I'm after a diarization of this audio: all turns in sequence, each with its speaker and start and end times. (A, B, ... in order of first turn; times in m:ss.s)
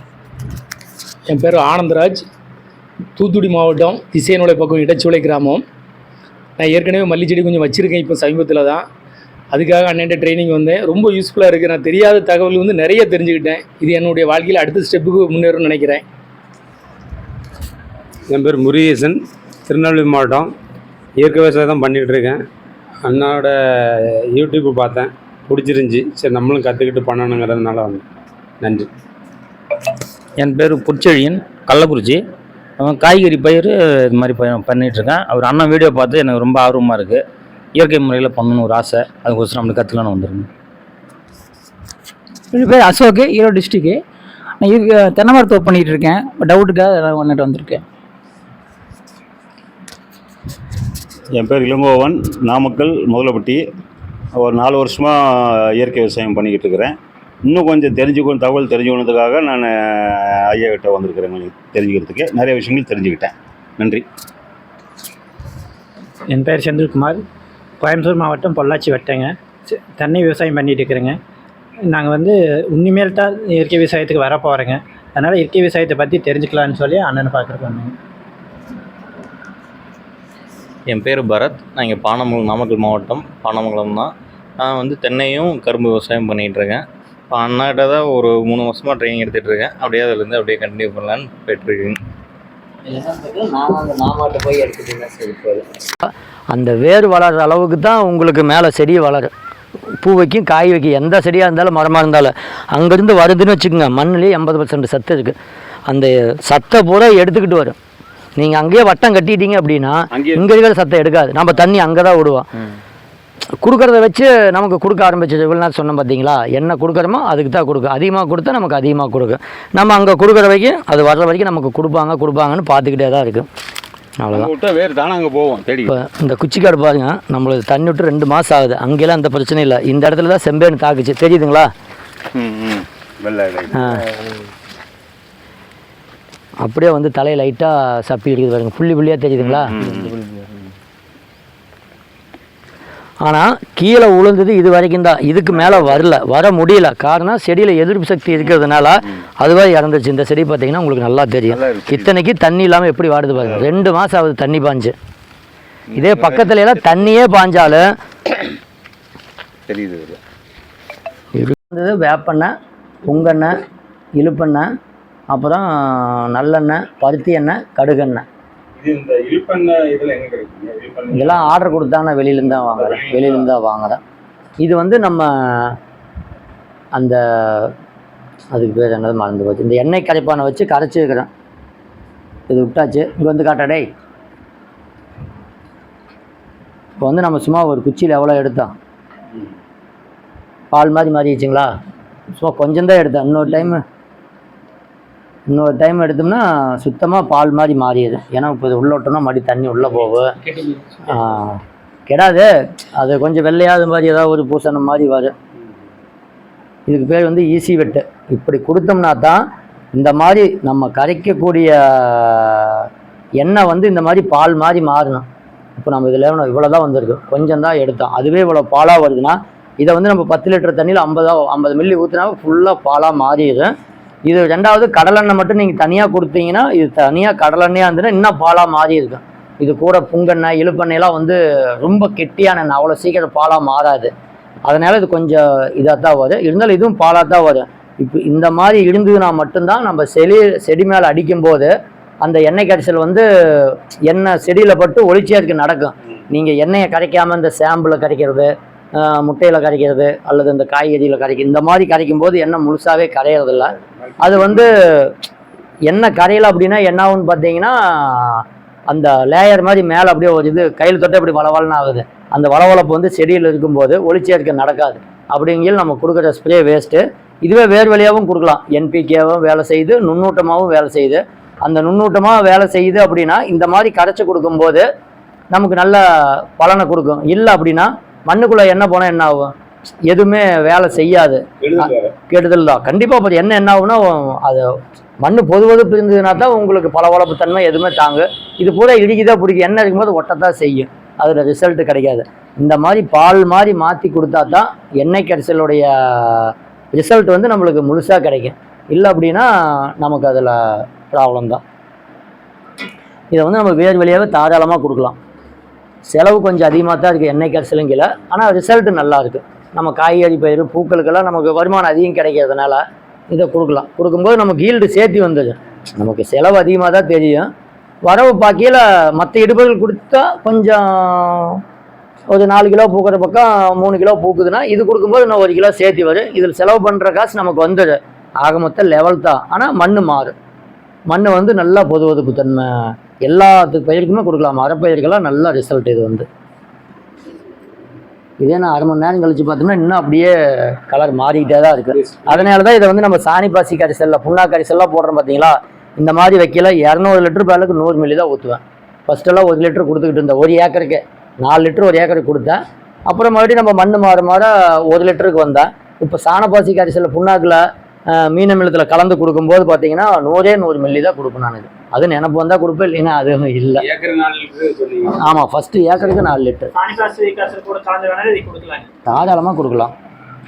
0:01.3-0:02.3 A
0:03.2-0:05.6 A
0:06.6-0:08.9 A
0:09.5-0:16.0 A
0:18.3-0:20.5 B
0:21.2-0:22.4 B
0:23.0-0:28.0 B
0:28.6-0:28.9 B
0:30.4-0:32.2 C
0:32.8-0:37.2 C
0:37.8-0:40.5 C
0:42.5-0:44.0 D
0:44.6-0:47.8 D
0:51.4-0:53.6 E
0:54.4-1:04.0 E
1:06.3-1:07.2 F
1:07.8-1:11.2 F
1:11.9-1:17.9 F
1:20.9-1:32.0 G
1:32.9-1:39.3 H
1:40.0-1:45.4 H
1:45.9-1:47.8 H
1:48.4-1:52.5 H
1:50.1-1:50.6 E
1:53.6-2:03.5 H
2:04.2-2:04.5 H
2:04.3-2:05.9 E
2:05.9-2:11.7 H
2:12.3-2:14.0 E
2:13.7-2:14.0 H
2:16.6-2:19.7 H
2:19.4-2:20.2 E
2:23.2-2:34.9 H
2:25.5-2:26.0 E
2:31.5-2:32.1 E
2:35.9-2:37.0 E
2:36.0-2:37.9 H
2:39.7-2:40.2 E
2:41.4-2:42.5 H
2:43.0-2:43.6 H
2:44.2-2:44.7 H
2:45.3-2:48.2 H
2:48.8-2:51.6 E
2:51.1-2:54.0 H
2:52.5-2:53.5 E
2:54.6-2:55.8 H
2:57.0-2:57.7 H
2:58.5-3:01.3 H
3:02.5-3:03.9 H
3:07.0-3:08.7 H
3:10.7-3:11.7 H
3:12.4-3:13.8 H
3:15.5-3:20.4 H
3:21.0-3:25.3 H
3:26.9-3:29.4 H
3:29.9-3:32.9 H
3:33.4-3:35.3 H
3:35.8-3:43.7 H
3:44.3-3:54.1 H
3:54.7-4:01.7 H
4:02.2-4:15.2 H
4:13.8-4:14.7 E
4:15.9-4:34.9 H
4:35.5-4:39.5 H
4:40.1-5:01.6 H
4:41.6-4:42.1 B
5:03.3-5:05.2 H
5:06.1-5:17.5 H
5:18.0-5:21.6 H
5:22.3-5:30.4 H
5:31.1-5:36.3 H
5:38.4-6:03.8 H
5:41.9-5:42.5 B
6:03.8-6:05.3 B
6:05.1-6:06.7 H
6:06.7-6:08.9 F
6:09.1-6:09.9 H